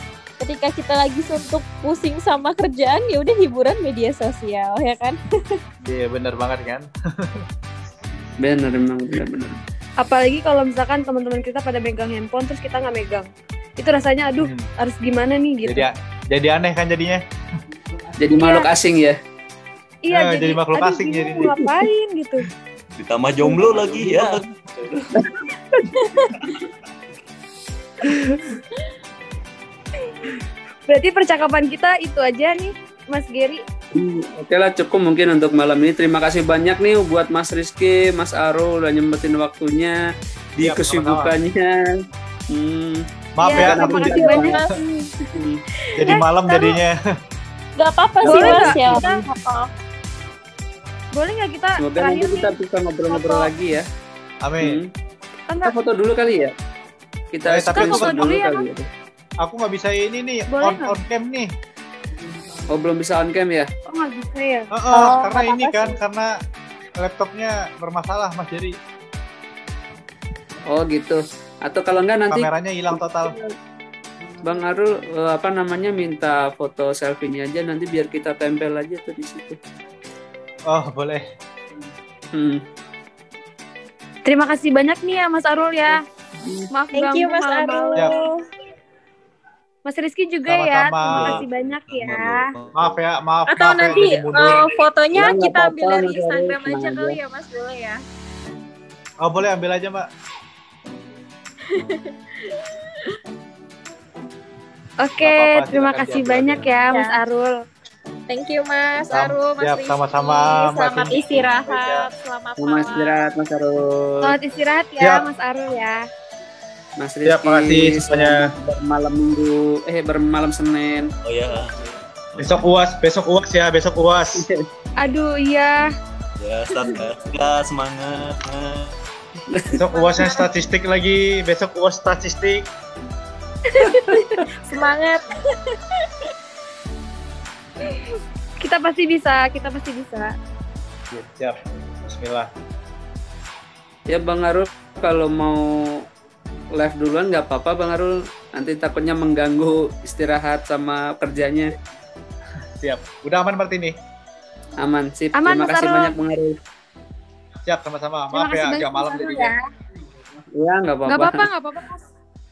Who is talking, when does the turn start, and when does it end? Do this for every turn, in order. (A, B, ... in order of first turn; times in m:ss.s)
0:00.4-0:05.6 A
0:05.8-0:07.4 B
0:08.4-0:09.6 C
0:10.0-0:15.9 D
0:14.4-0:14.7 B
0:15.6-0:17.2 B
0:18.2-0:19.2 C
0:18.4-0:18.7 D
0:20.0-0:22.4 D
0:20.1-0:21.5 B
0:23.0-0:25.1 E
0:25.2-0:26.1 C
0:26.3-0:26.6 E
0:28.0-0:28.4 D
0:30.9-0:33.6 D
0:33.9-0:40.0 C
0:40.6-0:42.0 C
0:40.6-0:41.3 B
0:42.5-0:44.6 C
0:43.4-0:44.2 B
0:43.4-0:45.2 D
0:44.1-0:44.7 A
0:45.3-0:45.6 C
0:45.8-0:46.1 A
0:46.0-0:47.0 B
0:46.0-0:46.7 D
0:47.8-0:49.7 A
0:48.2-0:49.1 C
0:48.3-0:49.2 D
0:51.1-0:52.5 D
0:51.8-0:53.8 C
0:53.1-0:53.5 D
0:54.4-0:54.8 B
0:54.6-0:54.9 C
0:55.5-0:55.7 D
0:55.6-0:56.5 C
0:57.3-0:58.9 C
0:57.5-0:58.3 B
0:57.7-0:58.6 D
0:59.4-1:01.5 B
1:00.5-1:00.9 D
1:02.7-1:03.7 C
1:03.9-1:05.9 D
1:04.7-1:06.3 B
1:07.0-1:08.8 B
1:10.7-1:12.5 C
1:12.3-1:13.3 B
1:13.2-1:13.5 C
1:14.4-1:19.6 C
1:20.7-1:21.2 B
1:22.3-1:22.6 C
1:24.2-1:26.0 D
1:26.4-1:26.7 C
1:26.7-1:28.1 D
1:26.9-1:28.4 A
1:29.8-1:32.5 D
1:30.4-1:31.4 B
1:31.1-1:33.0 E
1:32.7-1:34.7 B
1:33.5-1:38.0 A
1:35.1-1:37.2 C
1:39.2-1:40.0 B
1:41.7-1:42.1 A
1:45.0-1:47.5 D
1:45.2-1:46.7 B
1:46.9-1:47.2 A
1:48.3-1:53.2 A
1:49.1-1:52.1 B
1:52.6-1:54.3 C
1:54.2-1:56.0 D
1:57.0-2:01.1 C
1:57.2-1:58.4 B
2:01.2-2:01.8 E
2:02.3-2:02.7 E
2:02.4-2:04.4 B
2:04.3-2:04.6 C
2:05.0-2:05.9 D
2:06.4-2:09.0 E
2:09.5-2:09.8 C
2:09.7-2:12.7 B
2:09.9-2:10.4 D
2:13.8-2:14.4 C
2:13.8-2:14.2 D
2:14.6-2:15.6 A
2:18.6-2:20.3 D
2:21.1-2:22.5 B
2:24.1-2:26.0 C
2:26.7-2:31.7 C
2:32.8-2:33.9 B
2:34.8-2:36.6 C
2:35.4-2:36.2 D
2:37.6-2:39.5 B
2:38.3-2:39.6 D
2:40.6-2:41.5 C
2:41.1-2:42.0 D